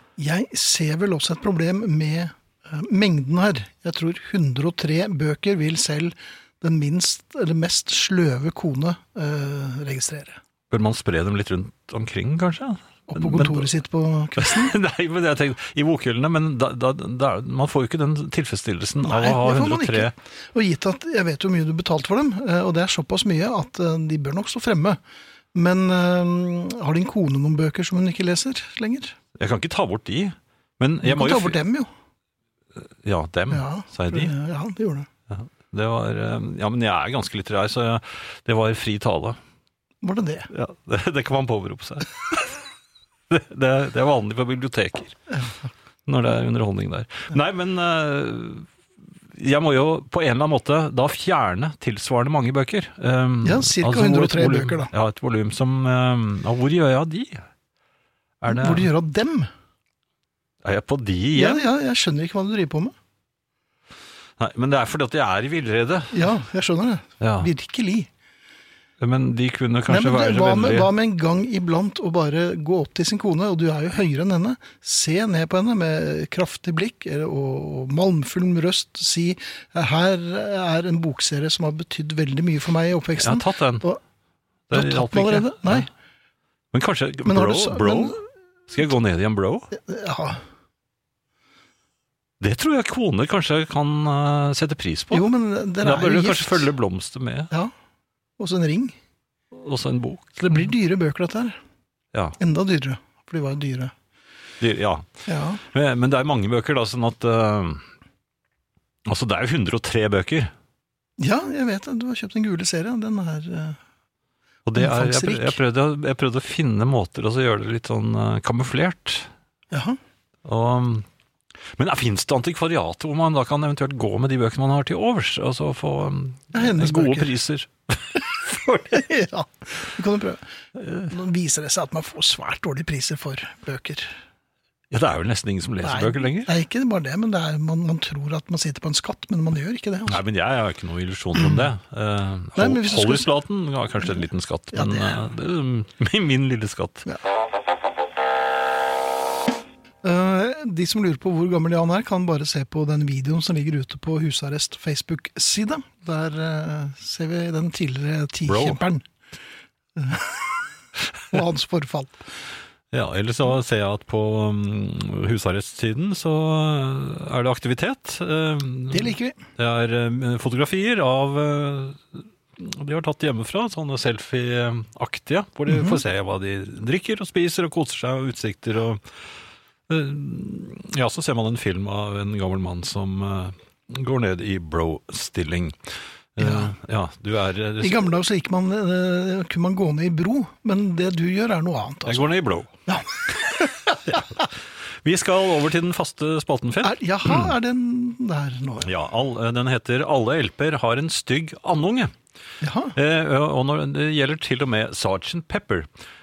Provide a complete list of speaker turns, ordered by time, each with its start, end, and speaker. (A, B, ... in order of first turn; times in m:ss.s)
0:00.2-0:10.4 A
0:10.7-0:13.7 B
0:13.1-0:14.7 A
0:14.4-0:20.1 B
0:19.0-0:25.0 A
0:25.5-0:29.2 A
0:29.4-0:31.6 B
0:31.0-0:31.9 A
0:33.0-0:34.3 B
0:33.5-0:35.1 A
0:35.3-0:39.4 B
0:40.0-0:40.5 A
0:40.5-0:42.6 B
0:43.3-0:45.2 B
0:46.1-0:48.7 B
0:49.3-0:57.4 B
0:53.4-0:54.9 A
0:58.4-0:58.9 B
0:58.5-0:59.5 A
1:00.6-1:01.6 B
1:01.3-1:02.9 A
1:04.4-1:06.3 B
1:06.1-1:08.1 A
1:07.2-1:07.5 B
1:09.0-1:10.9 B
1:09.9-1:24.0 A
1:23.2-1:23.9 B
1:24.7-1:25.9 B
1:24.7-1:25.9 A
1:26.7-1:29.7 B
1:27.2-1:28.2 A
1:29.7-1:30.4 A
1:32.4-1:35.3 B
1:35.1-1:36.7 A
1:35.8-1:37.5 B
1:38.4-1:39.0 A
1:39.5-1:40.7 B
1:40.4-1:41.6 A
1:42.4-1:43.9 A
1:44.6-1:45.1 B
1:45.3-1:45.6 A
1:45.7-1:47.8 B
1:49.0-1:50.5 B
1:51.2-1:53.8 A
1:54.6-1:59.3 B
1:54.8-1:55.6 A
1:59.7-2:00.0 A
2:00.4-2:01.0 B
2:01.8-2:09.0 B
2:06.5-2:07.3 A
2:08.9-2:10.4 A
2:11.0-2:14.1 A
2:14.9-2:16.5 B
2:15.8-2:20.2 A
2:20.1-2:27.1 B
2:21.4-2:21.7 A
2:22.6-2:23.3 A
2:24.0-2:25.2 A
2:30.0-2:39.0 A
2:38.5-2:38.8 B
2:40.0-2:40.6 A
2:41.3-2:42.2 A
2:42.9-2:59.0 B
2:48.9-2:49.4 A
2:55.7-2:56.0 A
2:59.9-3:05.8 B
3:06.4-3:08.1 B
3:06.4-3:06.7 A
3:07.8-3:12.3 A
3:12.0-3:12.7 B
3:12.9-3:14.2 A
3:14.1-3:14.5 B
3:15.0-3:17.5 B
3:16.8-3:18.9 A
3:18.8-3:22.1 B
3:22.6-3:23.0 A
3:22.9-3:25.9 B